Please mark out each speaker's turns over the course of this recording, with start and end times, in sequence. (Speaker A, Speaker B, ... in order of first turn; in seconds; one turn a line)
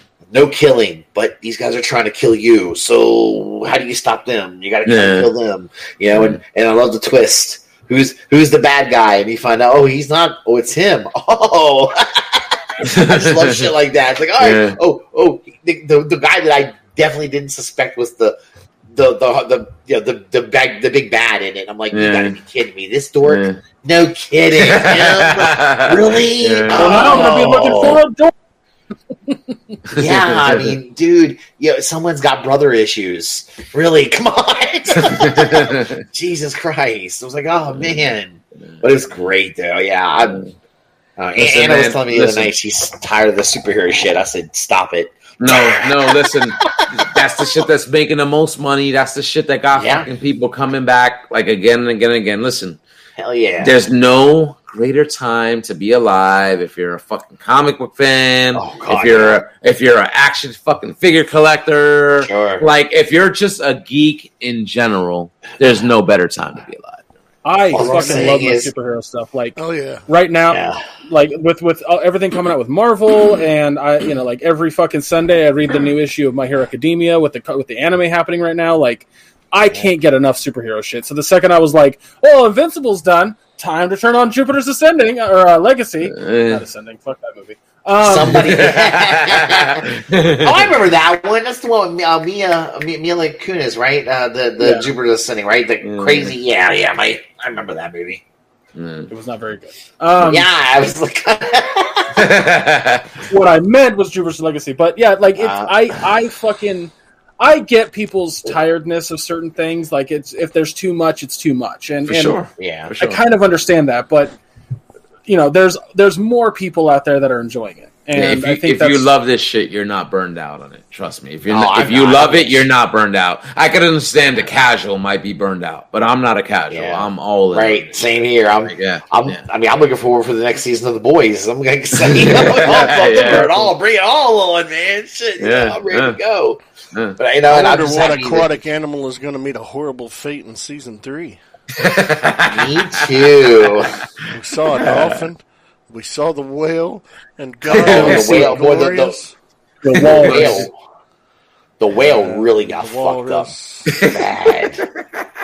Speaker A: 0.3-18.4
Speaker B: 4.9-5.3
Speaker B: 12.8-13.7
Speaker B: 14.4-14.8
Speaker A: 18.9-28.0
Speaker B: 21.9-22.4
Speaker B: 23.3-23.6
Speaker B: 24.6-27.3
Speaker C: 26.7-28.3
Speaker B: 29.9-30.8
Speaker A: 29.9-40.4
Speaker B: 34.9-36.0
Speaker B: 37.7-38.1
Speaker B: 38.7-39.3
Speaker A: 41.2-47.6
Speaker B: 41.4-42.5
Speaker B: 45.4-52.8
Speaker A: 49.7-50.1
Speaker A: 53.2-53.7
Speaker B: 53.6-67.1
Speaker A: 58.5-59.4
Speaker A: 62.2-62.7
Speaker C: 67.4-88.6
Speaker A: 67.7-68.7
Speaker D: 67.8-68.3
Speaker D: 69.6-70.0
Speaker A: 70.5-70.8
Speaker B: 86.0-86.6
Speaker A: 88.0-98.2
Speaker B: 88.3-90.7
Speaker C: 94.6-94.9
Speaker B: 95.8-96.3
Speaker B: 98.8-99.1
Speaker C: 99.1-100.5
Speaker A: 100.2-102.2
Speaker B: 102.2-103.2
Speaker C: 103.3-112.4
Speaker A: 105.4-105.9
Speaker B: 112.1-113.2
Speaker A: 112.6-112.9
Speaker C: 113.0-114.3
Speaker C: 115.3-119.1
Speaker B: 118.1-128.1
Speaker A: 121.5-122.7
Speaker A: 126.7-136.6
Speaker B: 128.7-129.4
Speaker B: 132.0-133.5
Speaker C: 132.9-133.5
Speaker B: 135.4-136.2
Speaker A: 137.2-138.5
Speaker D: 137.5-141.4
Speaker B: 141.8-143.1
Speaker A: 142.4-143.9
Speaker D: 144.3-149.3
Speaker B: 144.8-145.3
Speaker B: 147.7-148.5
Speaker A: 147.7-149.2
Speaker C: 149.8-150.7
Speaker A: 149.9-150.7
Speaker B: 149.9-150.7
Speaker A: 151.8-153.5
Speaker D: 152.2-154.1
Speaker B: 153.9-154.8
Speaker A: 154.0-154.8